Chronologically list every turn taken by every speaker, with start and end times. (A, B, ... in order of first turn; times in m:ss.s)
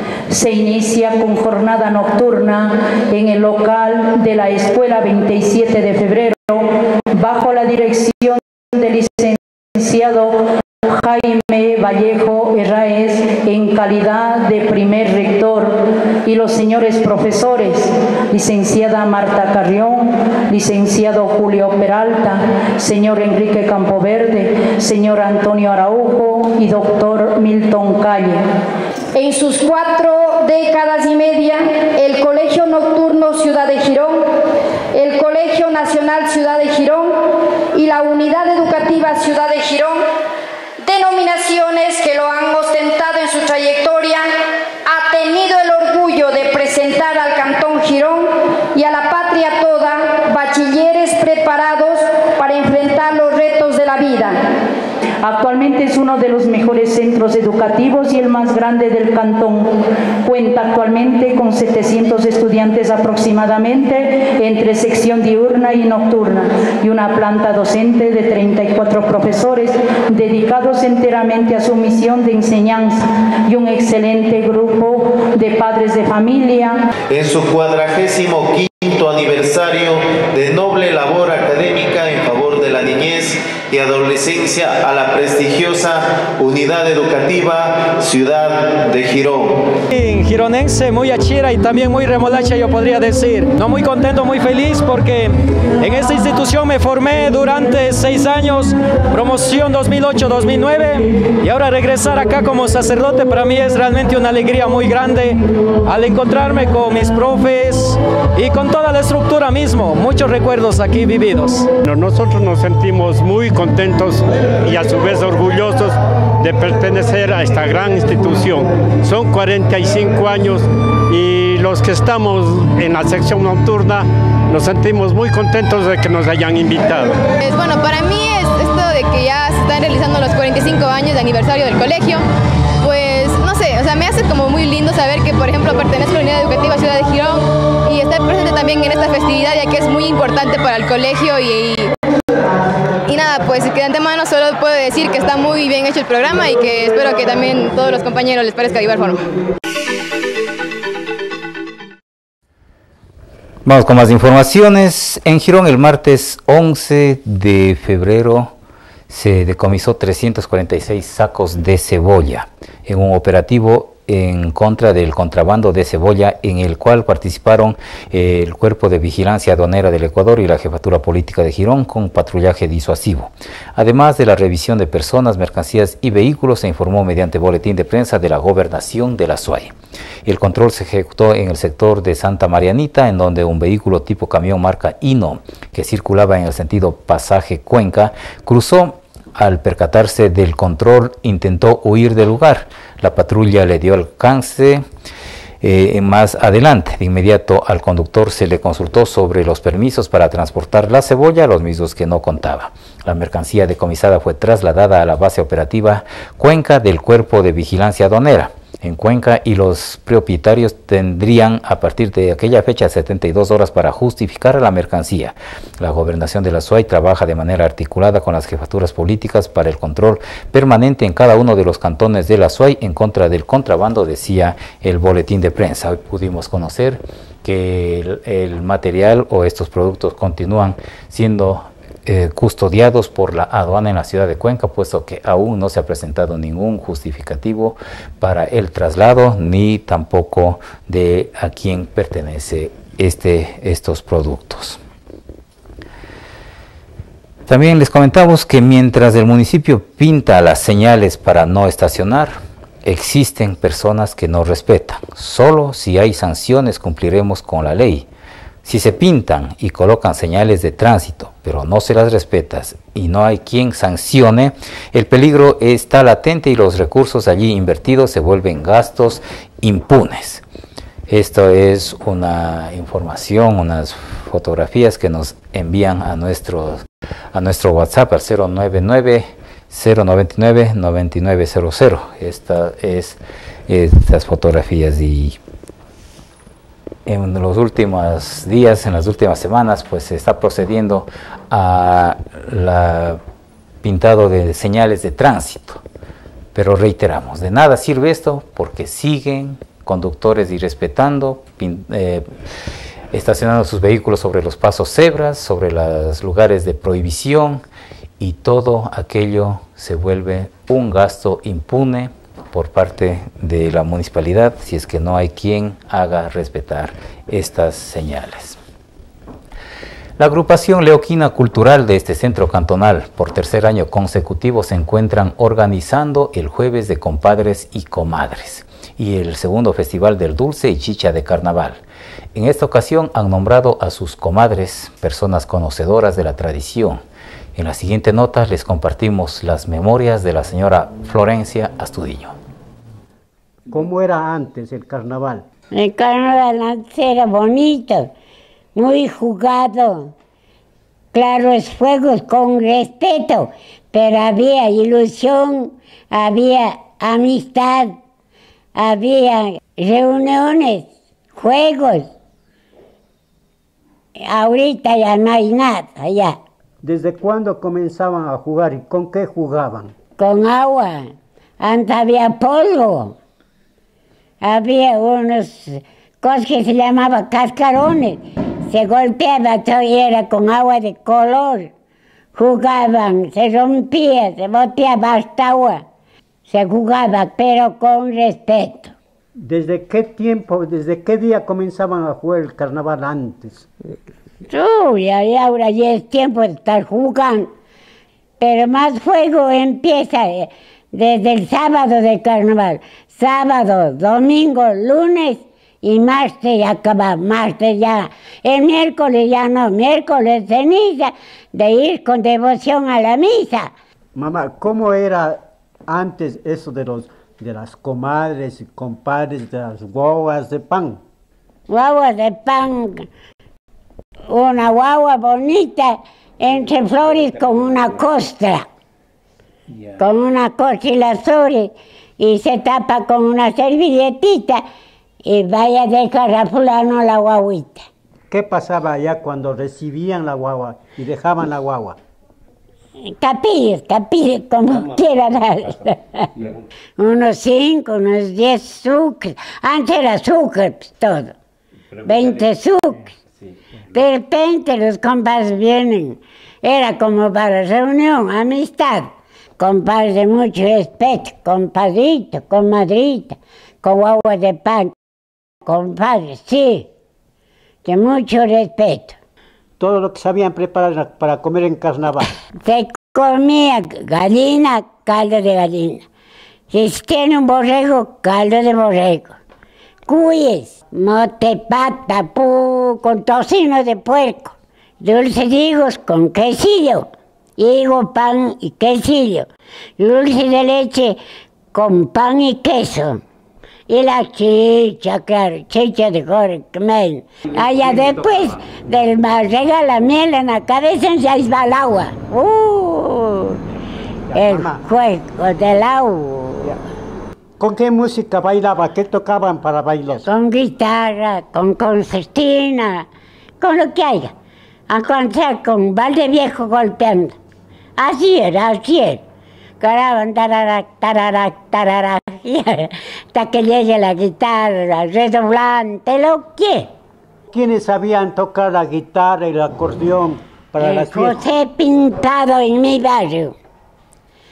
0:00.3-0:28.4 A
0:29.1-0:34.3 B
0:34.9-0:40.0 B
0:40.8-0:44.3 B
0:44.9-0:54.4 B
0:55.2-1:16.8 A
1:17.1-1:29.7 C
1:29.9-1:51.7 D
1:51.8-2:07.3 E
2:07.4-2:12.3 F
2:12.8-2:21.9 F
2:23.1-2:29.3 F
2:33.6-2:38.5 G
2:39.1-2:59.7 G
3:00.2-3:14.8 G
3:15.6-4:04.8 G
4:07.5-4:18.1 G
4:18.6-4:30.4 G
4:31.1-4:45.4 G
4:47.1-4:53.2 G
4:53.8-4:55.8 G
4:56.6-5:02.3 G
5:03.1-5:07.6 G
5:08.2-5:18.6 G
5:20.2-5:31.8 G
5:32.4-5:37.0 G
5:37.6-5:42.4 G
5:43.7-5:45.4 H
5:45.7-5:48.1 I
5:48.8-5:50.1 I
5:51.1-5:58.0 I
5:58.8-6:02.1 I
6:04.2-6:06.4 I
6:06.8-6:09.9 H
6:10.2-6:13.2 I
6:14.4-6:21.7 I
6:22.4-6:25.8 I
6:26.5-6:28.9 I
6:29.4-6:33.7 H
6:34.5-6:37.5 I
6:38.4-6:53.7 I
6:54.2-7:01.0 H
7:01.7-7:03.1 I
7:04.3-7:08.7 I
7:10.0-7:14.6 I
7:15.3-7:17.8 I
7:18.3-7:22.0 H
7:23.2-7:26.3 I
7:27.0-7:31.3 I
7:32.0-7:33.1 I
7:33.9-7:44.9 I
7:45.7-7:46.9 I
7:47.8-7:49.2 I
7:49.8-7:52.3 H
7:52.6-7:56.0 I
7:56.7-7:59.4 I
8:00.1-8:09.5 I
8:10.0-8:11.2 I
8:11.7-8:13.2 I
8:13.9-8:23.6 I
8:24.3-8:24.8 H
8:24.4-8:26.6 I
8:27.6-8:30.3 H
8:30.2-8:33.1 I
8:33.6-8:34.3 I
8:34.9-8:37.3 I
8:38.0-8:39.2 I
8:39.8-8:46.9 I
8:47.5-8:51.4 H
8:50.8-8:53.5 I